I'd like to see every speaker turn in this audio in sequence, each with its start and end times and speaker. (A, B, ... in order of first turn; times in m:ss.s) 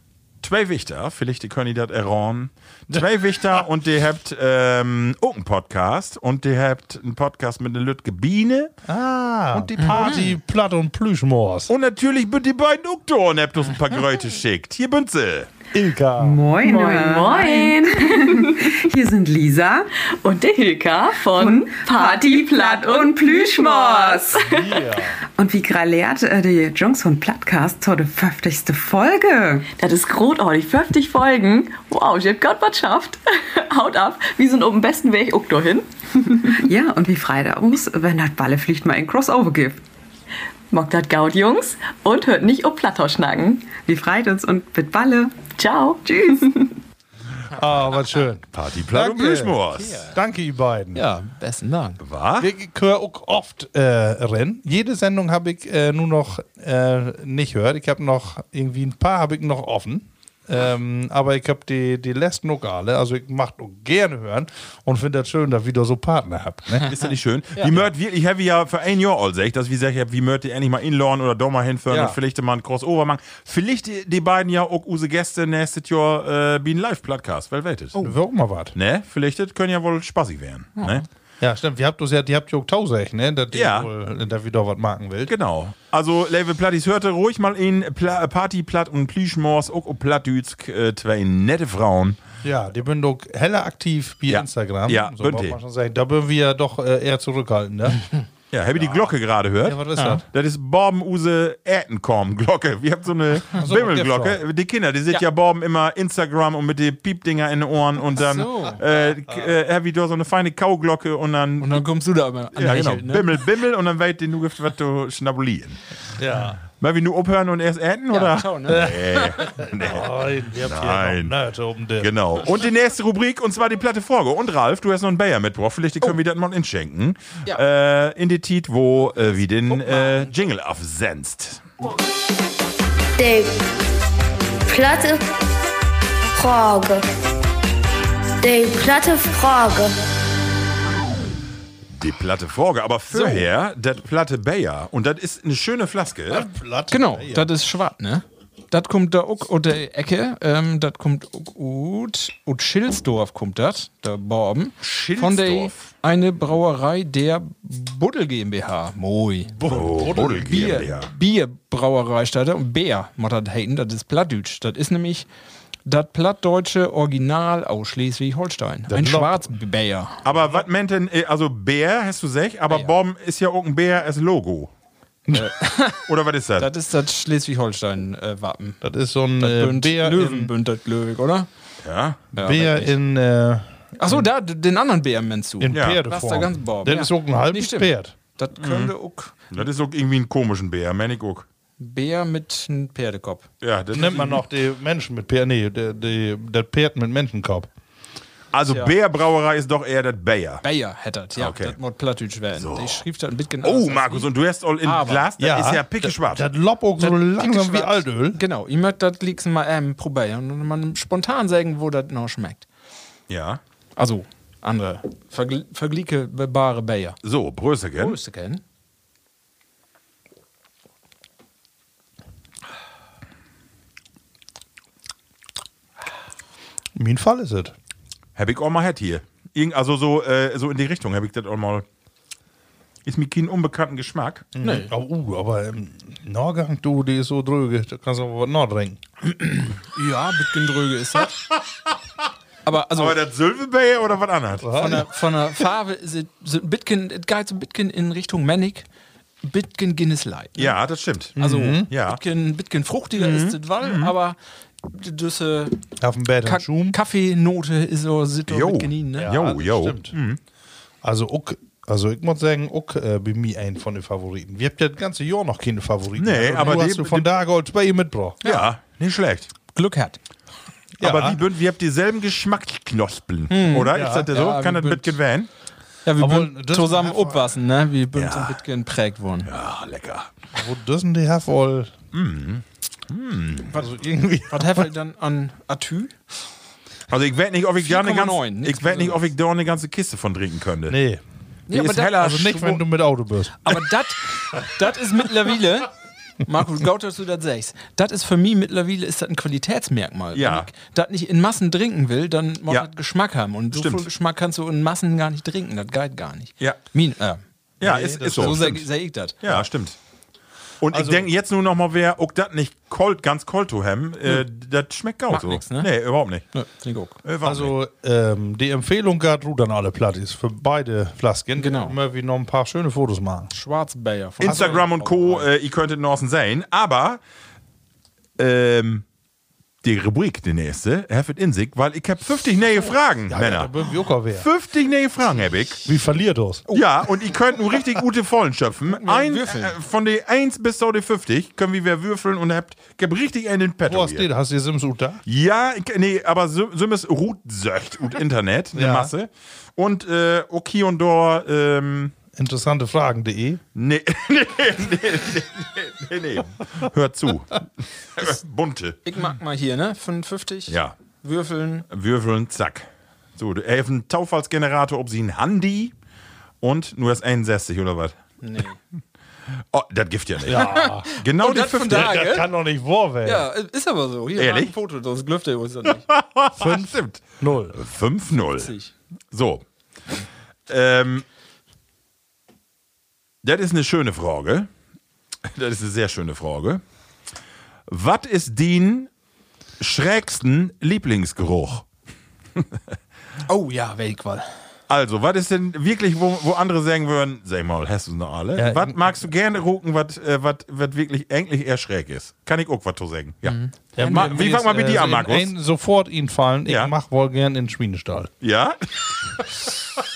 0:00.4-0:08.7 A
0:08.8-0:11.7 B
0:09.5-0:10.2 A
0:11.7-0:15.5 A
0:15.7-0:16.4 B
0:16.2-0:19.9 C
0:16.6-0:18.6 D
0:20.2-0:24.7 D
0:21.3-0:24.6 C
0:24.4-0:25.2 B
0:25.3-0:29.7 C
0:29.7-0:36.5 D
0:36.5-0:39.8 C
0:40.7-0:43.7 D
0:43.6-0:45.4 C
0:45.4-0:46.7 D
0:47.6-0:51.0 B
0:48.5-0:50.0 A
0:49.8-0:50.1 E
0:50.9-0:52.0 E
0:52.0-0:52.5 A
0:52.4-1:06.9 B
1:06.8-1:18.1 A
1:11.9-1:12.2 B
1:18.0-1:18.7 B
1:18.7-1:21.0 A
1:20.8-1:21.0 E
1:21.4-1:25.3 B
1:23.5-1:23.9 A
1:25.2-1:32.2 A
1:32.4-1:38.0 B
1:34.3-1:35.6 A
1:38.5-1:51.8 A
1:38.8-1:39.1 B
1:39.6-1:40.2 B
1:43.6-1:44.4 B
1:48.1-1:48.8 E
1:51.6-1:53.4 E
1:52.5-1:55.8 A
1:56.2-1:56.6 B
1:56.8-2:01.3 A
1:58.1-1:59.3 E
1:58.7-2:02.1 B
2:02.0-2:11.6 A
2:09.7-2:10.3 E
2:13.2-2:13.6 F
2:14.6-2:15.2 F
2:16.3-2:17.0 F
2:18.4-2:20.0 F
2:21.9-2:26.5 A
2:23.1-2:23.5 E
2:26.3-2:27.5 B
2:26.9-2:39.6 E
2:34.8-2:35.9 A
2:39.6-2:40.6 B
2:39.6-2:41.1 A
2:40.1-2:45.3 E
2:45.8-2:50.2 E
2:48.9-2:49.5 B
2:50.2-2:54.7 A
2:55.3-2:56.0 E
2:56.0-2:56.7 A
2:56.6-2:58.8 E
2:58.8-3:00.5 B
2:59.4-3:01.5 E
3:01.8-3:02.2 A
3:02.3-3:02.9 E
3:02.4-3:04.3 B
3:04.0-3:09.4 E
3:05.6-3:08.1 B
3:05.7-3:06.0 A
3:08.6-3:08.9 A
3:09.5-3:11.4 A
3:11.8-3:13.5 E
3:13.6-3:14.4 A
3:13.9-3:17.7 B
3:18.5-3:20.6 A
3:18.7-3:18.9 E
3:20.6-3:24.3 E
3:21.4-3:21.8 A
3:22.5-3:23.0 A
3:23.6-3:26.4 A
3:24.8-3:25.3 E
3:25.4-3:28.4 B
3:27.0-3:32.7 E
3:33.3-3:33.6 A
3:34.0-3:37.2 E
3:37.2-3:38.2 A
3:37.9-3:38.6 E
3:47.0-3:47.7 B
3:48.4-3:51.8 A
3:53.0-3:54.5 A
3:54.5-3:59.0 B
3:54.6-3:54.9 E
3:59.2-4:01.4 E
4:02.6-4:03.2 E
4:03.0-4:04.7 A
4:04.6-4:05.1 B
4:04.8-4:08.9 E
4:09.4-4:10.7 E
4:10.6-4:11.4 A
4:11.4-4:11.9 B
4:11.4-4:15.8 E
4:11.9-4:12.2 A
4:13.2-4:14.1 A
4:16.0-4:17.0 B
4:16.4-4:19.3 E
4:18.5-4:20.4 A
4:19.2-4:20.1 B
4:21.0-4:28.4 B
4:26.2-4:27.3 A
4:28.4-4:28.7 E
4:28.4-4:29.5 A
4:29.7-4:30.2 E
4:31.0-4:31.4 B
4:31.0-4:35.5 A
4:33.5-4:35.2 E
4:33.9-4:34.3 B
4:36.0-4:39.5 E
4:36.2-4:37.6 B
4:38.2-4:38.6 A
4:39.5-4:40.3 A
4:40.5-4:41.9 B
4:42.1-4:43.7 A
4:43.8-4:44.9 B
4:44.5-4:46.2 E
4:47.1-4:51.0 A
4:47.8-4:49.2 E
4:50.9-4:51.2 B
4:51.7-4:52.7 E
4:51.7-4:52.7 A
4:52.1-4:53.8 B
4:53.6-4:55.9 E
4:56.4-5:09.4 E
5:00.3-5:00.7 A
5:03.7-5:04.1 A
5:07.8-5:08.8 A
5:07.8-5:08.8 B
5:09.4-5:10.0 A
5:10.8-5:16.5 A
5:10.9-5:11.3 B
5:15.3-5:15.9 E
5:16.5-5:17.2 E
5:17.2-5:17.7 A
5:17.4-5:23.5 B
5:21.6-5:22.0 E
5:23.5-5:25.5 E
5:24.4-5:24.8 B
5:24.4-5:27.2 A
5:28.4-5:29.0 A
5:29.8-5:33.7 A
5:33.3-5:34.4 B
5:34.3-5:35.9 A
5:35.8-5:36.7 B
5:36.7-5:44.2 A
5:38.9-5:39.7 E
5:43.8-5:45.2 B
5:45.2-5:52.1 A
5:48.7-5:49.1 B
5:52.4-5:53.6 B
5:53.7-5:59.0 A
5:59.0-6:01.8 E
6:00.7-6:00.9 A
6:01.9-6:05.9 A
6:06.6-6:08.1 A
6:08.4-6:08.8 E
6:09.7-6:10.6 A
6:10.4-6:11.1 B
6:10.5-6:12.5 E
6:11.2-6:12.2 A
6:11.8-6:13.5 B
6:13.2-6:16.0 E
6:14.4-6:14.7 A
6:16.1-6:18.7 A
6:16.6-6:17.8 B
6:18.6-6:18.9 E
6:19.3-6:19.6 A
6:20.7-6:21.2 A
6:23.4-6:24.7 A
6:25.5-6:26.8 A
6:27.9-6:29.1 A
6:29.8-6:31.8 A
6:33.5-6:34.5 E
6:34.9-6:45.5 A
6:38.6-6:39.0 B
6:43.4-6:44.9 E
6:44.0-6:48.3 B
6:48.4-6:49.6 A